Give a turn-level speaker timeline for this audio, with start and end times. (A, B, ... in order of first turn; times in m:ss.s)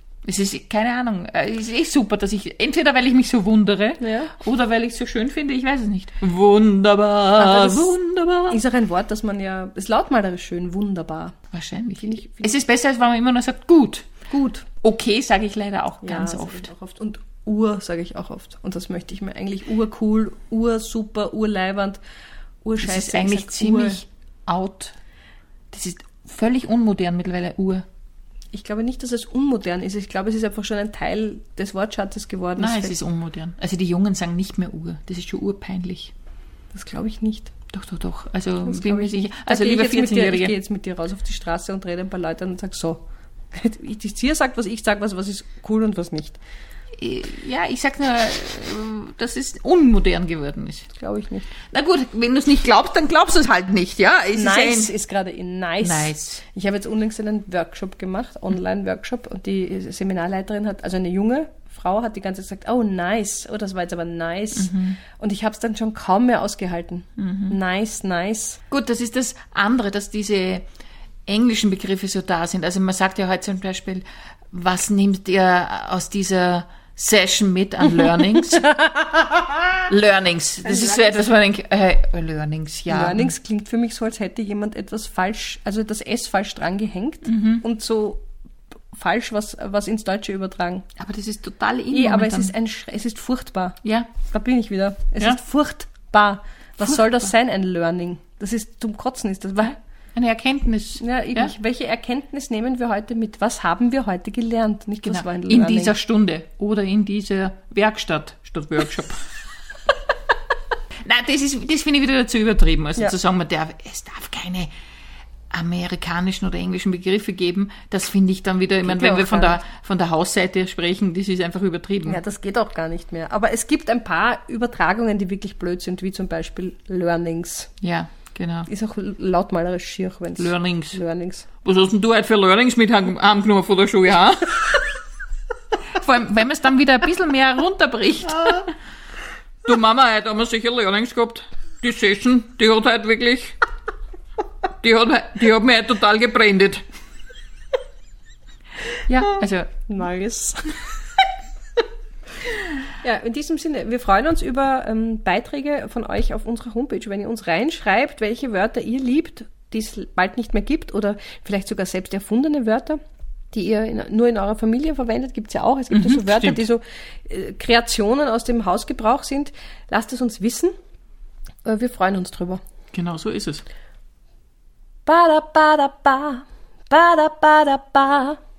0:00.2-0:08.6 A
0:04.0-0:04.3 B
0:07.4-0:07.9 B
0:08.5-0:11.4 B
0:11.5-0:14.1 A
0:12.0-0:12.5 B
0:14.3-0:14.6 B
0:14.8-0:16.7 A
0:16.0-0:22.0 B
0:22.6-0:24.0 B
0:22.8-0:25.0 A
0:25.7-0:27.8 A
0:28.5-0:33.0 B
0:32.6-0:36.1 A
0:36.7-0:37.5 B
0:37.7-0:40.5 A
0:38.6-0:43.0 B
0:43.5-0:46.4 B
0:47.0-0:50.9 A
0:50.9-0:51.5 B
0:51.7-0:54.9 A
0:54.3-1:08.6 B
0:55.8-0:56.4 A
1:04.5-1:05.0 A
1:07.2-1:07.5 A
1:08.7-1:10.6 A
1:11.3-1:18.7 A
1:18.7-1:19.6 B
1:19.9-1:23.3 A
1:20.7-1:21.0 B
1:22.9-1:28.2 B
1:27.2-1:27.6 A
1:28.9-1:30.8 B
1:31.0-1:32.5 A
1:31.9-1:39.8 B
1:36.8-1:37.3 A
1:40.1-1:41.5 A
1:41.0-1:46.0 B
1:45.0-1:49.3 A
1:51.0-1:54.7 A
1:55.5-2:02.2 A
1:58.8-1:59.6 B
2:02.0-2:07.7 B
2:07.8-2:08.7 A
2:08.7-2:11.4 B
2:10.4-2:11.0 A
2:11.6-2:14.8 A
2:15.9-2:18.7 A
2:19.6-2:23.6 A
2:24.8-2:26.8 A
2:29.1-2:29.8 A
2:29.9-2:30.8 B
2:32.9-2:43.0 B
2:43.5-2:50.7 B
2:45.9-2:46.6 A
2:51.6-2:52.6 B
2:52.9-2:53.6 A
2:55.0-2:58.4 B